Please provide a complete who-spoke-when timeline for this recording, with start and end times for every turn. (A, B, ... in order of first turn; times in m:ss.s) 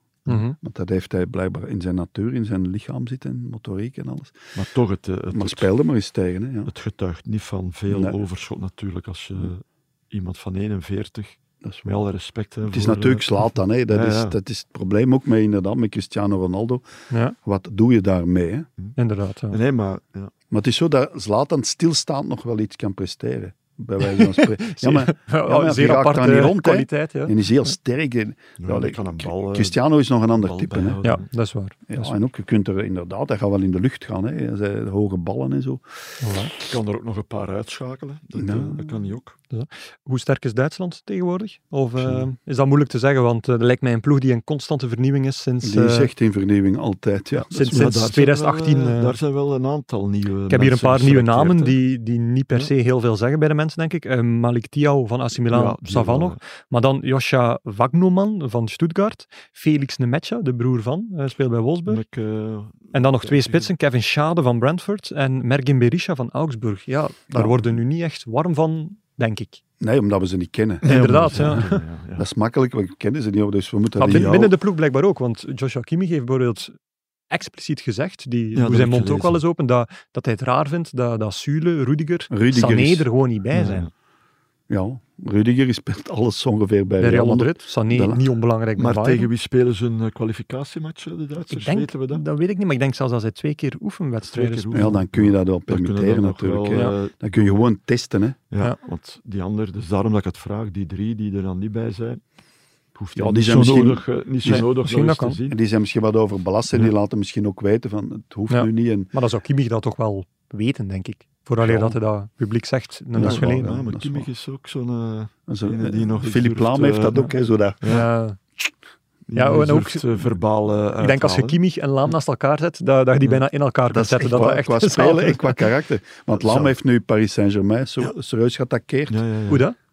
0:00.3-0:00.6 A
0:00.6-0:04.4 B
0:04.5-0:05.7 C
0:05.3-0:06.7 B
0:06.7-0:14.4 C
0:07.9-0:08.2 B
0:12.7-0:16.8 B
0:17.1-0:17.4 A
0:17.4-0:18.7 B
0:19.0-0:19.6 A
0:19.5-0:20.3 C
0:20.5-0:31.0 B
0:24.0-0:27.4 A
0:28.6-0:29.8 C
0:30.3-0:31.3 C
0:31.0-0:32.1 A
0:31.9-0:36.0 B
0:36.2-0:36.5 A
0:36.6-0:39.3 C
0:38.4-0:38.9 B
0:39.5-0:46.1 A
0:45.6-0:47.9 B
0:47.5-0:49.2 A
0:47.7-0:51.8 C
0:50.5-1:02.0 A
0:55.5-0:56.4 C
1:01.9-1:03.7 C
1:02.9-1:09.6 A
1:07.3-1:07.7 B
1:09.8-1:11.6 B
1:10.8-1:11.8 A
1:10.8-1:12.2 C
1:12.2-1:14.5 B
1:14.0-1:16.7 A
1:14.0-1:14.5 C
1:17.3-1:23.9 A
1:18.5-1:19.4 C
1:22.3-1:23.1 B
1:23.5-1:23.9 C
1:24.7-1:28.2 B
1:27.0-1:29.3 A
1:28.8-1:32.2 C
1:31.5-1:35.0 A
1:34.3-1:37.6 C
1:34.7-1:38.4 B
1:38.5-1:42.2 C
1:42.9-1:45.6 C
1:43.1-1:44.7 B
1:44.4-1:45.4 A
1:45.5-1:49.1 B
1:48.5-1:53.7 A
1:51.6-1:51.9 C
1:53.1-1:54.3 B
1:53.2-1:57.3 C
1:55.5-1:57.8 B
1:57.8-1:58.1 C
1:57.9-1:58.4 A
1:59.3-2:01.6 C
1:59.3-2:00.1 A
2:01.0-2:05.6 A
2:03.9-2:09.2 B
2:06.3-2:06.7 C
2:09.1-2:09.6 C
2:09.5-2:09.8 A